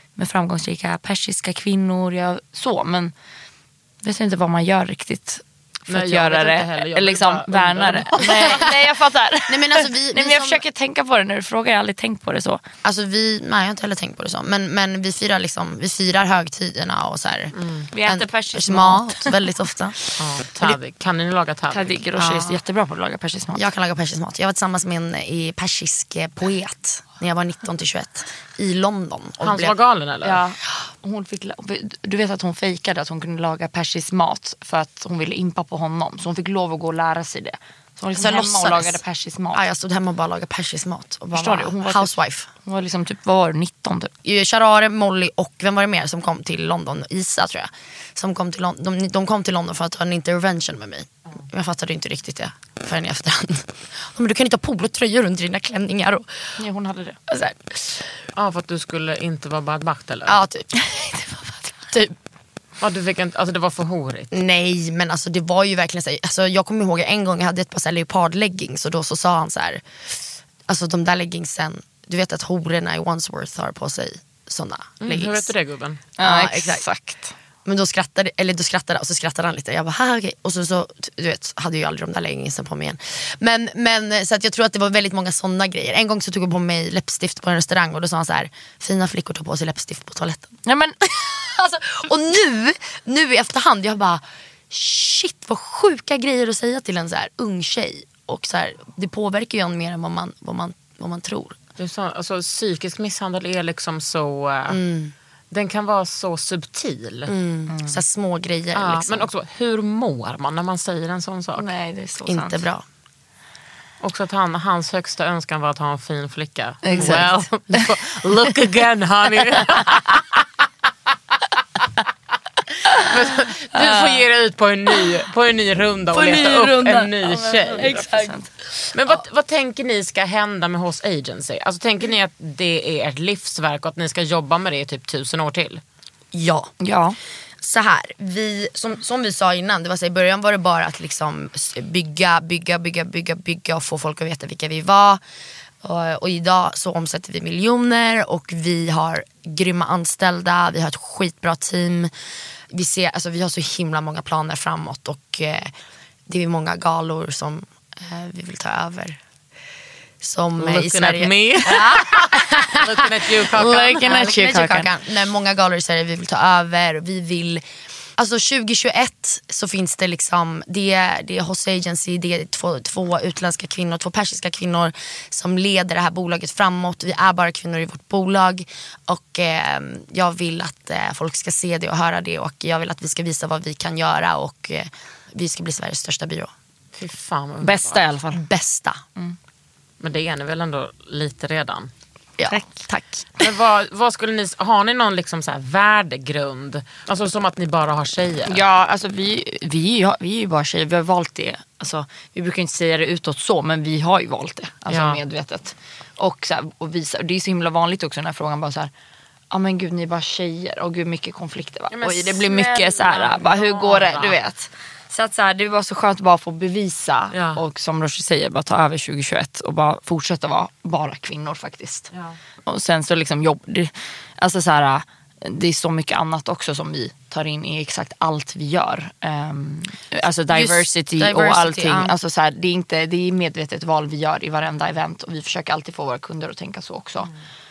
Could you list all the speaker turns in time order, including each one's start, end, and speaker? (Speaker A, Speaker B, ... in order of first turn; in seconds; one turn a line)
Speaker A: 0.2-3.1
Speaker A: 4.0-12.6
Speaker B: 5.9-8.6
Speaker C: 8.2-8.8
Speaker C: 9.5-10.6
Speaker C: 12.8-20.0
Speaker B: 17.5-17.9
Speaker A: 17.9-19.5
Speaker B: 20.2-22.0
Speaker A: 21.7-23.7
Speaker C: 22.2-22.6
Speaker C: 23.6-29.8
Speaker B: 29.4-30.4
Speaker A: 30.2-39.6
Speaker C: 38.1-39.0
Speaker C: 39.5-42.5
Speaker A: 41.3-44.1
Speaker C: 44.2-56.5
Speaker A: 56.6-57.2
Speaker C: 57.3-58.1
Speaker B: 58.4-60.4
Speaker C: 60.3-60.8
Speaker A: 60.7-61.8
Speaker B: 62.8-64.3
Speaker C: 64.3-69.8
Speaker C: 70.7-75.5
Speaker B: 75.0-76.0
Speaker A: 76.2-77.3
Speaker C: 76.2-76.8
Speaker C: 77.7-101.6
Speaker A: 90.7-91.0
Speaker B: 101.8-104.8
Speaker C: 104.7-105.1
Speaker B: 105.5-107.3
Speaker C: 107.3-109.3
Speaker A: 107.7-108.0
Speaker B: 108.7-111.7
Speaker A: 111.6-112.7
Speaker C: 112.3-112.8
Speaker B: 114.0-120.4
Speaker A: 116.8-117.8
Speaker C: 117.0-117.3
Speaker B: 122.9-128.0
Speaker A: 123.7-124.2
Speaker A: 126.1-128.5
Speaker B: 128.9-135.8
Speaker C: 136.3-136.7
Speaker A: 136.8-137.2
Speaker C: 137.6-145.2
Speaker C: 145.8-152.1
Speaker C: 152.7-155.7
Speaker C: 156.3-159.2
Speaker C: 160.2-167.6
Speaker B: 160.6-164.3
Speaker A: 163.5-164.9
Speaker C: 168.2-186.5
Speaker B: 186.9-188.0
Speaker A: 187.6-188.4
Speaker C: 188.3-189.0
Speaker B: 190.0-191.9
Speaker C: 192.4-193.2
Speaker A: 192.5-192.9
Speaker B: 193.4-198.6
Speaker A: 198.5-208.9
Speaker B: 204.9-205.2
Speaker A: 209.5-222.1
Speaker B: 211.9-214.4
Speaker B: 217.3-217.6
Speaker A: 222.7-237.3
Speaker C: 230.5-232.1